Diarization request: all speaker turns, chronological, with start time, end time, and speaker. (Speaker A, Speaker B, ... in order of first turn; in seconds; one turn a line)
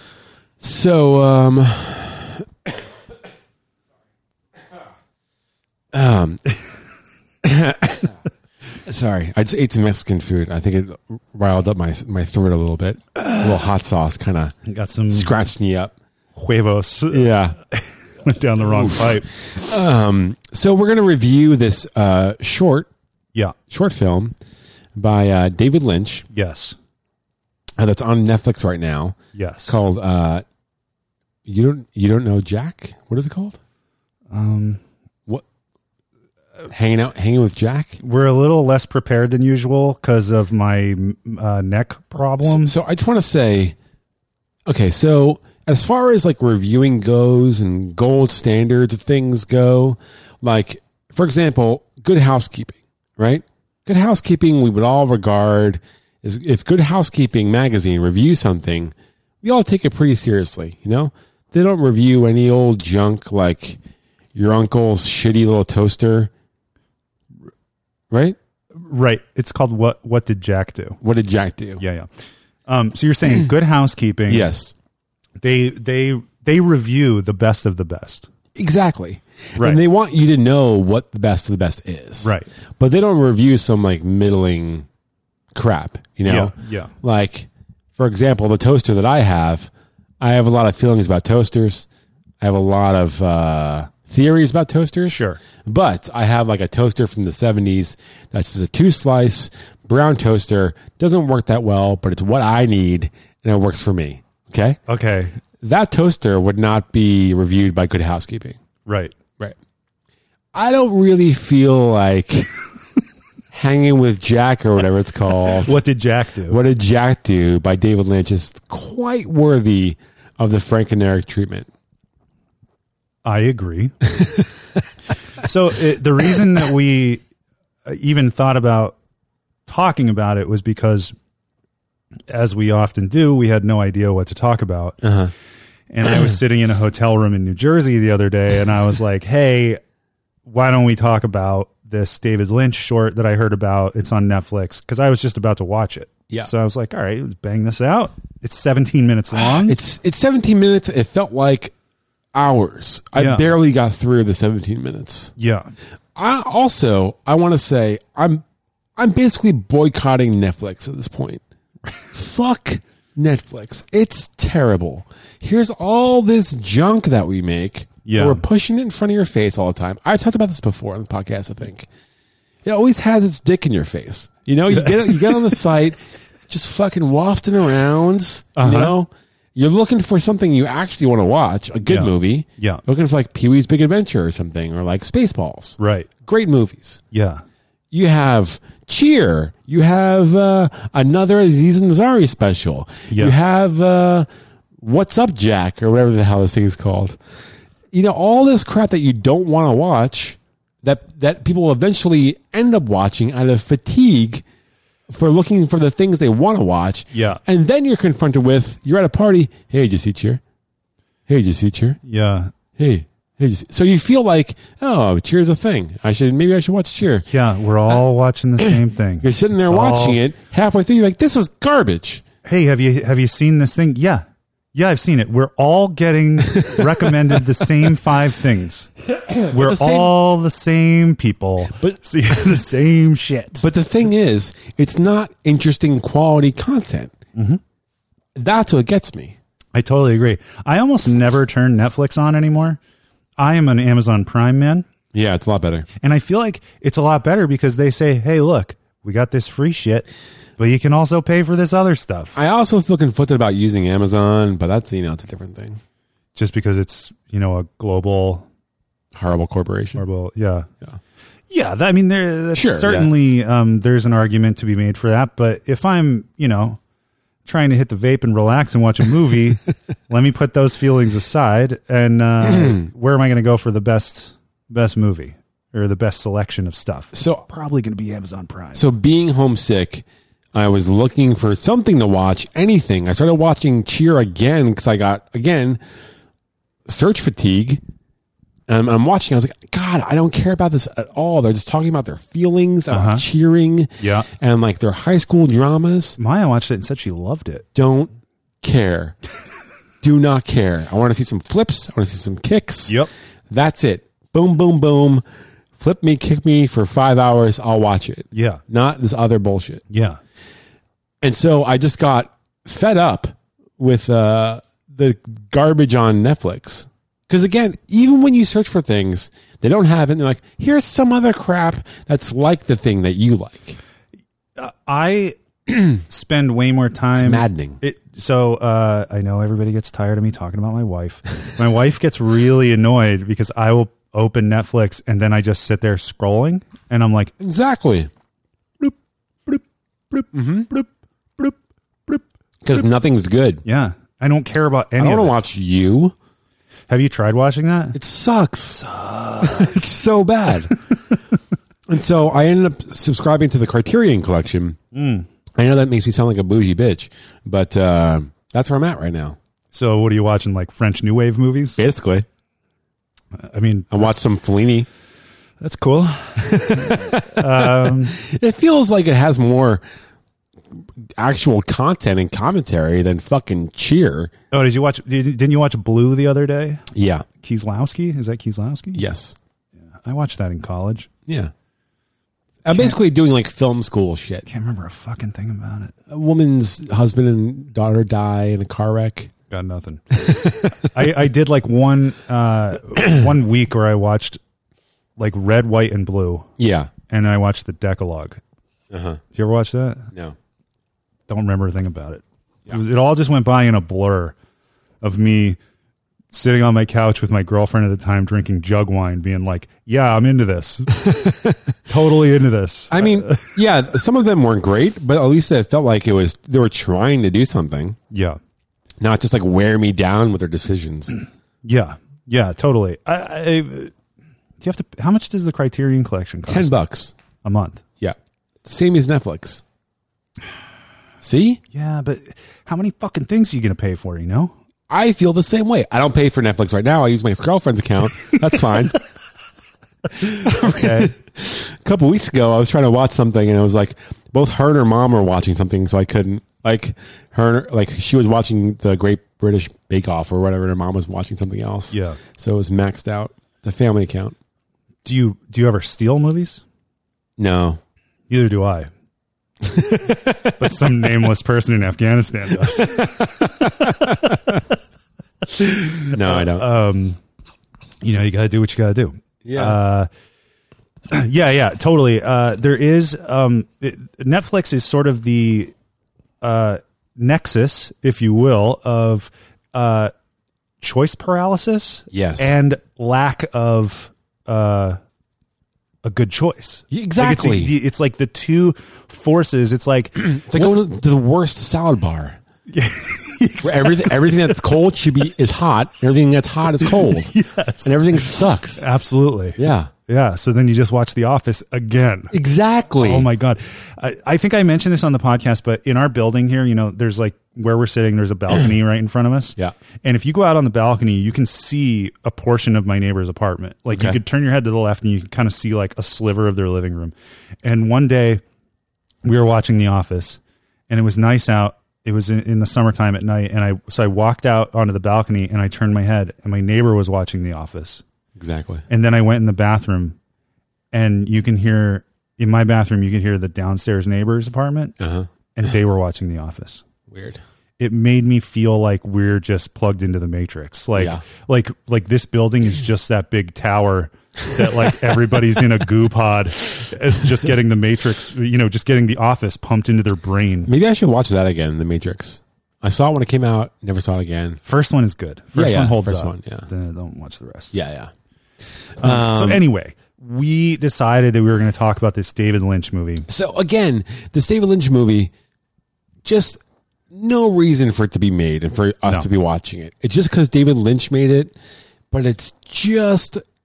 Speaker A: 0.6-2.7
Speaker A: 5.9-6.5
Speaker A: 7.4-8.2
Speaker A: 8.8-14.6
Speaker B: 14.7-15.3
Speaker A: 15.1-15.9
Speaker B: 16.4-19.3
Speaker A: 17.1-17.6
Speaker A: 18.6-22.9
Speaker A: 23.7-24.4
Speaker A: 25.0-26.3
Speaker B: 26.3-26.8
Speaker A: 27.8-30.4
Speaker B: 29.4-29.8
Speaker A: 31.5-33.6
Speaker B: 34.3-34.8
Speaker A: 36.7-38.0
Speaker B: 38.0-42.7
Speaker A: 42.4-43.8
Speaker A: 44.7-63.8
Speaker A: 64.3-66.3
Speaker A: 68.1-68.4
Speaker B: 68.7-71.0
Speaker A: 71.0-71.8
Speaker B: 71.8-72.1
Speaker B: 72.7-74.5
Speaker A: 74.3-74.7
Speaker B: 75.4-78.3
Speaker A: 78.5-84.9
Speaker B: 79.6-79.8
Speaker B: 82.2-82.5
Speaker A: 85.5-91.9
Speaker B: 86.2-86.9
Speaker A: 92.4-104.8
Speaker B: 95.1-95.4
Speaker B: 104.9-105.4
Speaker A: 105.6-108.6
Speaker B: 108.9-109.1
Speaker A: 110.5-112.5
Speaker A: 113.5-115.8
Speaker B: 115.6-116.6
Speaker A: 116.5-121.7
Speaker B: 123.2-124.1
Speaker B: 125.4-127.2
Speaker B: 127.8-129.0
Speaker B: 129.7-131.1
Speaker B: 132.3-135.1
Speaker A: 135.0-135.3
Speaker B: 135.9-139.8
Speaker B: 140.5-149.8
Speaker A: 149.3-151.7
Speaker A: 152.3-155.3
Speaker B: 153.2-153.5
Speaker B: 155.4-155.7
Speaker A: 156.2-158.4
Speaker A: 159.0-161.4
Speaker A: 162.1-171.9
Speaker B: 168.1-168.4
Speaker A: 172.6-187.0
Speaker B: 174.7-175.6
Speaker B: 178.6-178.9
Speaker B: 181.9-182.8
Speaker B: 185.8-186.1
Speaker B: 187.1-187.4
Speaker A: 187.9-194.3
Speaker B: 193.1-193.3
Speaker A: 194.8-197.2
Speaker A: 197.9-204.4
Speaker A: 205.1-210.4
Speaker B: 207.1-207.4
Speaker A: 211.3-212.0
Speaker B: 212.0-212.5
Speaker A: 212.8-217.3
Speaker B: 217.3-220.2
Speaker A: 218.6-222.2
Speaker B: 222.4-228.9
Speaker A: 229.2-230.2
Speaker B: 229.5-233.7
Speaker A: 233.6-237.1
Speaker B: 237.3-237.6
Speaker A: 238.3-239.4
Speaker B: 239.8-242.8
Speaker B: 243.4-244.9
Speaker A: 245.1-245.9
Speaker B: 246.0-250.1
Speaker B: 250.6-252.4
Speaker A: 252.3-255.8
Speaker B: 256.4-258.5
Speaker A: 259.1-260.0
Speaker B: 260.0-260.7
Speaker B: 261.5-266.8
Speaker A: 262.5-263.1
Speaker B: 267.4-278.9
Speaker A: 277.1-277.4
Speaker A: 278.8-285.8
Speaker A: 286.9-287.8
Speaker A: 288.7-296.2
Speaker B: 292.9-293.2
Speaker B: 294.0-294.3
Speaker B: 296.2-297.7
Speaker A: 297.8-299.2
Speaker A: 300.0-303.0
Speaker A: 303.5-305.2
Speaker A: 305.8-309.8
Speaker B: 308.3-308.6
Speaker B: 309.9-310.2
Speaker A: 311.2-323.8
Speaker B: 324.6-337.3
Speaker A: 327.2-327.8
Speaker A: 337.4-338.1
Speaker B: 339.5-341.6
Speaker A: 340.3-340.7
Speaker A: 342.6-343.6
Speaker B: 343.6-345.4
Speaker A: 345.0-346.1
Speaker B: 346.9-348.0
Speaker A: 347.9-348.8
Speaker B: 348.8-349.7
Speaker A: 349.4-350.7
Speaker A: 351.9-354.8
Speaker B: 354.9-355.3
Speaker A: 355.6-359.4
Speaker B: 359.7-361.8
Speaker A: 361.8-362.3
Speaker B: 363.4-364.2
Speaker A: 363.9-364.9
Speaker B: 365.6-368.2
Speaker A: 366.4-369.8
Speaker A: 371.2-374.3
Speaker B: 374.5-376.9
Speaker A: 376.9-377.3
Speaker B: 377.4-379.0
Speaker A: 378.9-379.4
Speaker B: 379.9-381.1
Speaker A: 381.3-381.5
Speaker A: 382.6-384.5
Speaker B: 382.7-383.0
Speaker B: 384.5-385.9
Speaker A: 386.1-389.3
Speaker B: 389.5-390.2
Speaker A: 390.1-390.9
Speaker B: 390.8-394.4
Speaker B: 395.2-396.5
Speaker A: 396.6-396.9
Speaker B: 397.1-398.4
Speaker A: 398.9-399.2
Speaker B: 399.3-400.1
Speaker B: 401.3-404.4
Speaker B: 405.0-405.6
Speaker B: 406.3-411.3
Speaker A: 411.1-411.6
Speaker B: 411.9-413.6
Speaker A: 412.9-418.0
Speaker B: 418.1-418.4
Speaker A: 419.0-421.1
Speaker B: 421.6-423.9
Speaker B: 424.6-426.8
Speaker A: 426.5-427.1
Speaker B: 427.4-427.8
Speaker A: 428.0-429.6
Speaker A: 431.2-431.6
Speaker B: 431.7-434.5
Speaker A: 434.9-439.0
Speaker A: 440.2-454.4
Speaker B: 440.5-441.1
Speaker B: 451.9-452.2
Speaker B: 455.1-456.6
Speaker A: 457.4-457.8
Speaker B: 458.3-458.9
Speaker A: 459.6-460.5
Speaker B: 460.6-464.6
Speaker A: 462.7-464.6
Speaker B: 465.5-467.2
Speaker A: 466.1-466.7
Speaker B: 468.0-470.1
Speaker A: 469.4-469.8
Speaker B: 471.1-475.7
Speaker B: 476.4-480.1
Speaker B: 480.8-485.0
Speaker A: 482.1-482.6
Speaker B: 486.0-490.8
Speaker A: 486.9-487.7
Speaker A: 490.2-492.4
Speaker B: 492.7-494.6
Speaker A: 493.6-497.3
Speaker B: 496.8-502.3
Speaker A: 497.8-498.8
Speaker A: 499.6-499.9
Speaker A: 502.3-503.3
Speaker B: 503.0-518.4
Speaker A: 513.9-514.2
Speaker B: 519.2-528.0
Speaker A: 528.4-528.9
Speaker B: 528.9-530.2
Speaker B: 530.9-535.0
Speaker A: 535.0-535.3
Speaker B: 535.6-536.8
Speaker A: 537.1-537.4
Speaker B: 537.8-550.7
Speaker A: 541.0-541.2
Speaker A: 550.7-554.6
Speaker B: 554.6-557.8
Speaker A: 555.5-556.7
Speaker A: 557.7-558.1
Speaker A: 559.0-559.6
Speaker B: 559.0-563.3
Speaker A: 563.3-565.3
Speaker A: 566.2-571.6
Speaker A: 572.1-573.4